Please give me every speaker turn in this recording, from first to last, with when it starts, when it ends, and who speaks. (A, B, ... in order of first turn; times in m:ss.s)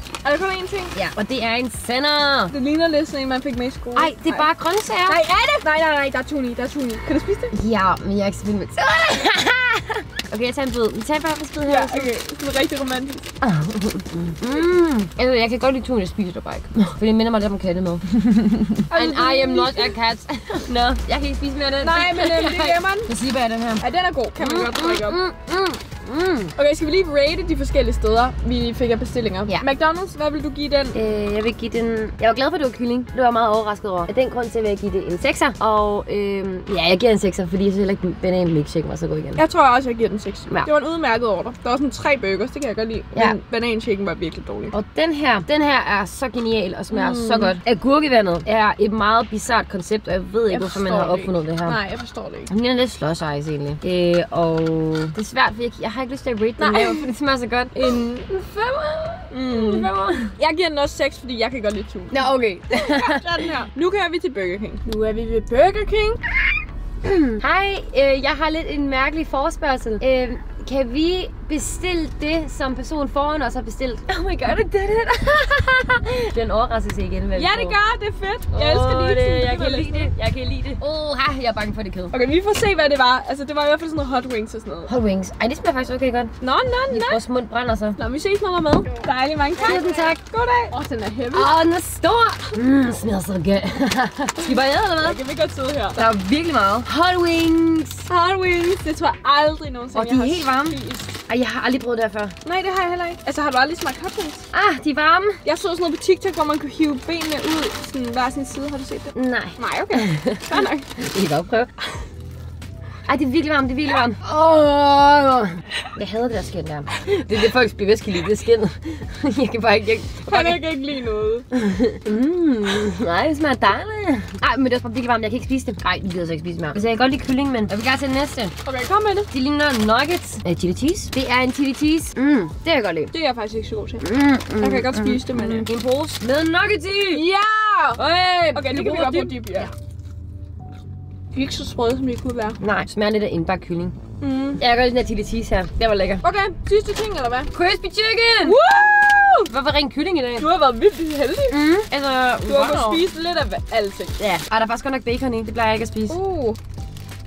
0:00.2-0:00.9 A
0:00.9-0:02.5 B
0:02.5-0:04.5 A
0:03.9-0:05.2 B
0:05.0-0:07.5 A
0:07.5-0:12.1 B
0:11.6-0:13.3 A
0:13.4-0:23.8 B
0:18.9-0:19.9 A
0:21.8-0:23.1 A
0:23.8-0:25.2 A
0:24.4-0:26.5 B
0:26.6-0:31.0 A
0:30.9-0:39.4 B
0:39.4-0:44.7 A
0:44.7-0:51.8 B
0:46.9-0:47.5 A
0:50.5-0:52.5 A
0:52.5-1:00.4 B
0:56.6-0:57.1 A
0:57.7-0:58.0 A
0:59.3-1:06.2 A
1:02.1-1:03.2 B
1:07.0-1:17.8 B
1:17.3-1:20.1 A
1:18.5-1:22.1 B
1:22.1-1:24.9 A
1:24.9-1:26.3 B
1:26.4-1:27.2 A
1:26.9-1:28.0 B
1:28.0-1:31.6 A
1:29.6-1:30.7 B
1:31.3-1:35.2 B
1:34.4-1:36.0 A
1:35.9-1:38.1 B
1:38.1-1:41.1 A
1:39.9-1:42.3 B
1:42.4-1:44.5 A
1:44.5-1:45.4 B
1:45.4-1:50.9 A
1:49.1-1:51.7 B
1:53.0-2:00.6 B
2:00.2-2:01.5 A
2:01.6-2:08.5 B
2:08.6-2:09.3 A
2:09.3-2:13.1 B
2:13.1-2:14.0 A
2:14.0-2:17.2 B
2:14.6-2:15.7 A
2:17.1-2:19.7 A
2:18.0-2:19.7 B
2:21.3-2:22.6 A
2:22.6-2:24.0 B
2:24.2-2:24.6 A
2:24.6-2:26.2 B
2:26.2-2:27.5 A
2:27.5-2:28.6 B
2:28.4-2:29.5 A
2:29.5-2:30.5 B
2:30.4-2:31.6 A
2:31.5-2:33.0 B
2:32.4-2:34.2 A
2:34.2-2:36.2 B
2:36.1-2:36.6 A